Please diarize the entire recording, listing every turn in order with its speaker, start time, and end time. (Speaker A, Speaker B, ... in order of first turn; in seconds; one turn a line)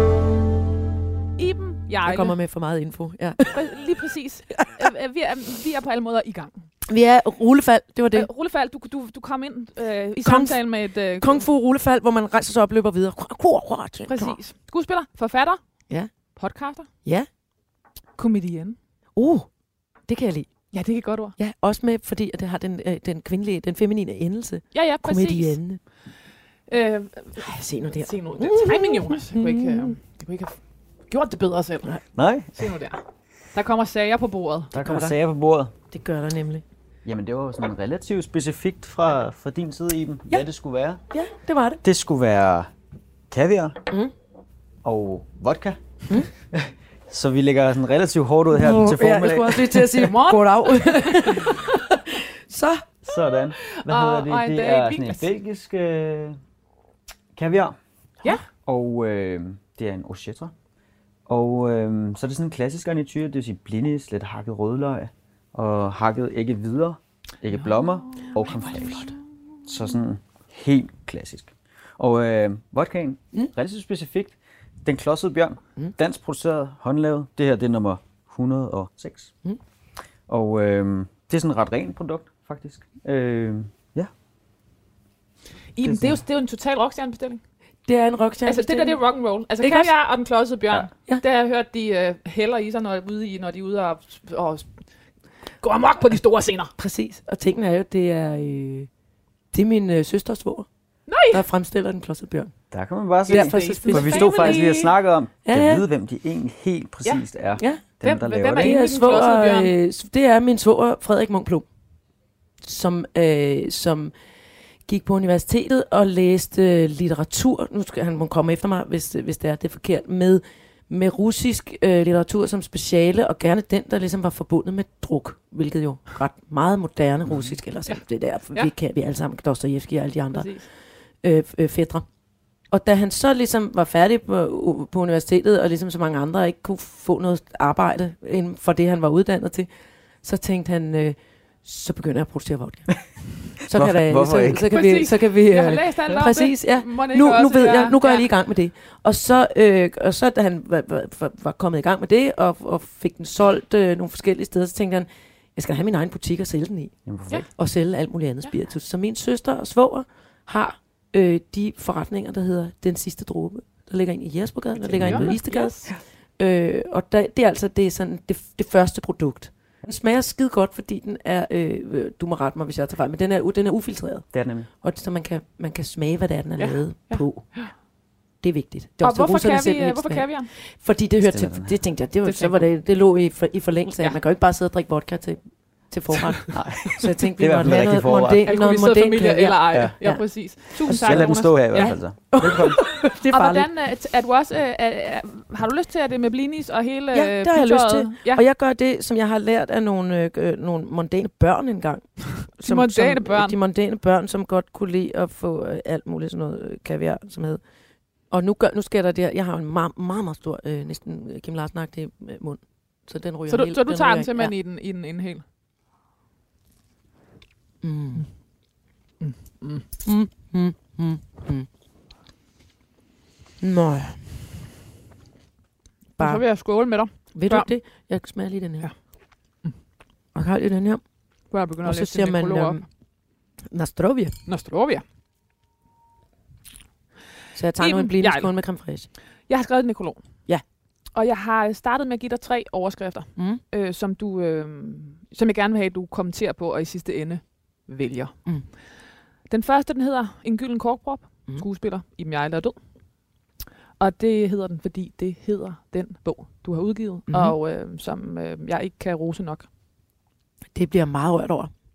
Speaker A: 1.4-2.4
Speaker B: 2.0-3.7
Speaker A: 3.5-6.7
Speaker B: 4.6-4.9
Speaker B: 6.9-8.3
Speaker A: 8.1-11.5
Speaker B: 10.2-10.6
Speaker B: 11.2-14.4
Speaker A: 14.0-15.6
Speaker A: 16.4-16.9
Speaker B: 17.0-17.3
Speaker A: 18.2-18.8
Speaker B: 19.2-19.5
Speaker B: 20.0-20.7
Speaker A: 20.7-21.4
Speaker B: 21.4-25.8
Speaker A: 24.7-25.9
Speaker A: 26.7-34.7
Speaker B: 27.4-30.0
Speaker C: 32.1-32.8
Speaker C: 34.7-35.7
Speaker B: 34.7-35.2
Speaker B: 35.9-36.6
Speaker C: 37.0-41.0
Speaker B: 41.1-41.8
Speaker C: 41.8-42.7
Speaker C: 43.3-43.8
Speaker C: 44.8-50.1
Speaker B: 48.5-52.9
Speaker A: 50.0-51.8
Speaker C: 53.1-56.4
Speaker A: 53.6-55.3
Speaker C: 57.4-60.5
Speaker C: 61.3-79.4
Speaker A: 68.1-68.4
Speaker B: 68.6-69.1
Speaker C: 80.3-84.1
Speaker A: 85.8-87.4
Speaker C: 85.8-86.2
Speaker B: 87.8-89.9
Speaker A: 88.5-95.0
Speaker A: 95.5-96.7
Speaker B: 96.8-98.9
Speaker B: 99.5-100.7
Speaker A: 101.1-101.5
Speaker B: 101.3-102.5
Speaker C: 102.7-108.8
Speaker B: 103.3-104.7
Speaker A: 103.3-104.9
Speaker B: 105.5-105.8
Speaker A: 107.8-109.7
Speaker B: 108.6-111.7
Speaker B: 112.6-114.1
Speaker B: 114.9-132.1
Speaker C: 127.2-127.6
Speaker A: 127.9-128.7
Speaker A: 130.3-130.7
Speaker B: 132.7-139.7
Speaker B: 140.2-157.0
Speaker C: 143.6-144.7
Speaker A: 144.7-148.3
Speaker C: 157.1-157.4
Speaker B: 157.5-177.9
Speaker C: 164.8-166.0
Speaker A: 165.0-165.9
Speaker C: 174.3-174.7
Speaker A: 176.6-177.7
Speaker B: 178.4-193.7
Speaker A: 179.0-180.5
Speaker C: 181.2-181.8
Speaker A: 182.2-182.6
Speaker A: 186.1-186.5
Speaker C: 186.5-188.5
Speaker A: 188.4-192.2
Speaker C: 189.7-193.0
Speaker A: 193.3-198.4
Speaker B: 197.1-207.6
Speaker A: 202.5-203.6
Speaker B: 208.3-214.5
Speaker A: 213.5-215.4
Speaker B: 217.8-218.3
Speaker A: 219.2-219.9
Speaker B: 220.0-221.7
Speaker B: 223.6-224.4
Speaker B: 226.2-226.5
Speaker A: 226.2-228.1
Speaker B: 227.1-228.9
Speaker A: 228.8-229.8
Speaker B: 230.3-231.1
Speaker A: 231.5-232.8
Speaker B: 231.8-232.9
Speaker B: 233.6-234.4
Speaker A: 234.5-235.0
Speaker B: 237.5-239.1
Speaker A: 237.8-238.5
Speaker A: 239.1-240.5
Speaker A: 241.1-259.7
Speaker B: 243.4-243.6
Speaker B: 257.3-257.6
Speaker B: 260.7-261.7